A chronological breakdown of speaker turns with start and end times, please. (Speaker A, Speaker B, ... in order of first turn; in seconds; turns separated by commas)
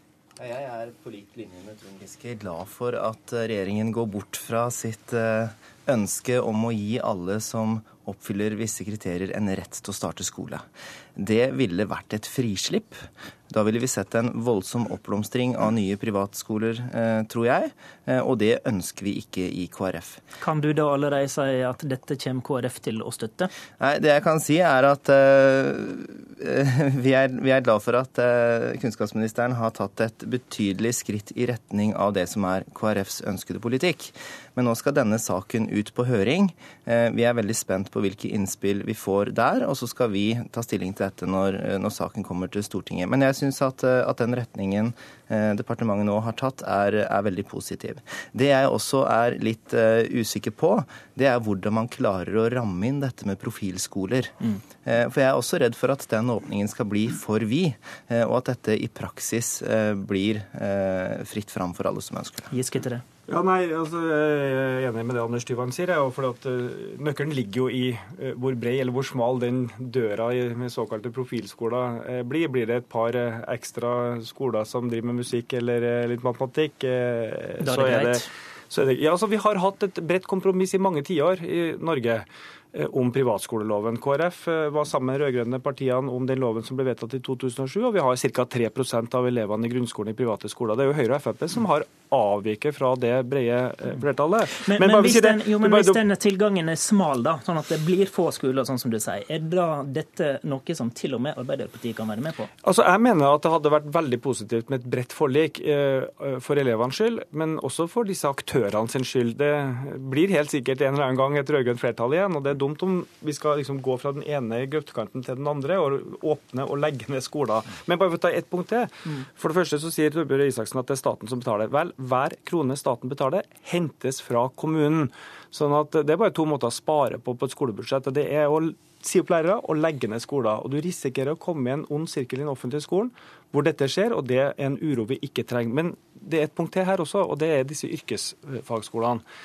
Speaker A: 0.4-20.2, Speaker B: 20.4-23.5, Speaker A: 23.8-62.5, Speaker B: 62.5-63.0, Speaker C: 63.3-96.0, Speaker B: 77.6-78.3, Speaker B: 94.5-102.5, Speaker C: 102.6-139.2